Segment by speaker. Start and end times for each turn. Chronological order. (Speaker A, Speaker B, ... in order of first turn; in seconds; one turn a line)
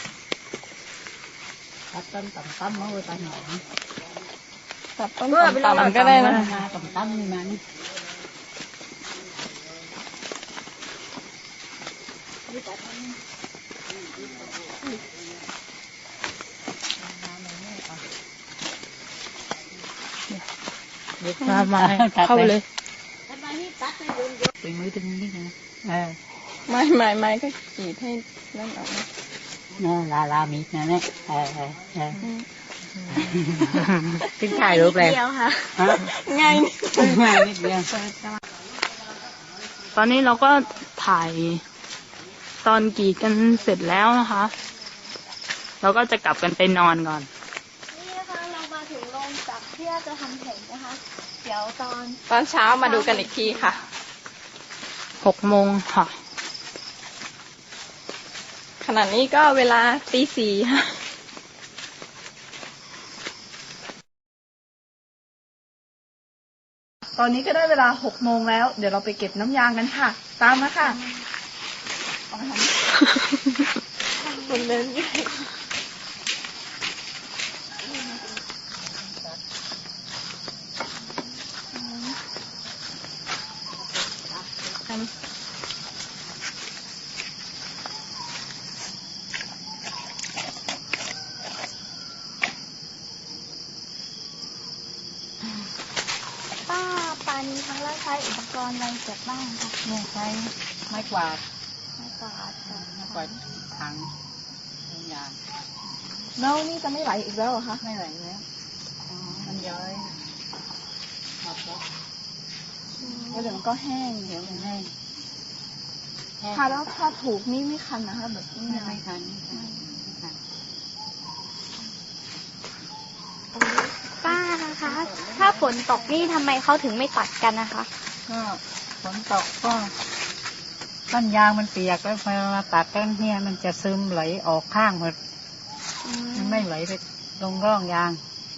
Speaker A: 1.9-3.6
Speaker B: 5.0-6.6
Speaker A: 5.3-7.6
Speaker A: 12.5-13.1
Speaker A: 17.0-18.1
Speaker A: 21.2-22.6
Speaker C: 21.4-22.6
Speaker A: 23.3-26.2
Speaker B: 26.7-29.1
Speaker A: 29.7-32.2
Speaker B: 32.2-32.5
Speaker C: 33.0-34.2
Speaker A: 33.1-33.8
Speaker A: 34.3-35.2
Speaker D: 34.5-35.9
Speaker A: 35.8-36.1
Speaker B: 35.9-37.7
Speaker A: 36.9-37.9
Speaker C: 40.0-41.6
Speaker C: 42.6-44.5
Speaker C: 45.8-47.3
Speaker D: 47.9-52.2
Speaker B: 52.3-53.8
Speaker D: 52.8-53.8
Speaker C: 55.2-56.1
Speaker B: 58.8-61.0
Speaker E: 67.2-71.0
Speaker D: 70.8-71.2
Speaker E: 72.3-72.8
Speaker D: 74.2-75.0
Speaker B: 74.3-75.5
Speaker A: 78.9-79.4
Speaker A: 84.0-84.7
Speaker D: 96.7-99.8
Speaker A: 99.8-101.4
Speaker D: 102.0-103.4
Speaker A: 102.7-104.1
Speaker A: 104.9-105.4
Speaker E: 106.4-107.8
Speaker A: 107.8-108.5
Speaker A: 109.4-110.1
Speaker A: 111.4-111.8
Speaker D: 113.0-113.6
Speaker E: 113.3-114.7
Speaker A: 114.2-114.9
Speaker A: 116.4-116.8
Speaker E: 116.5-119.0
Speaker A: 118.7-120.4
Speaker D: 123.5-127.9
Speaker A: 124.3-126.6
Speaker A: 128.3-129.9
Speaker A: 131.1-135.2
Speaker D: 136.0-136.7
Speaker A: 136.3-138.2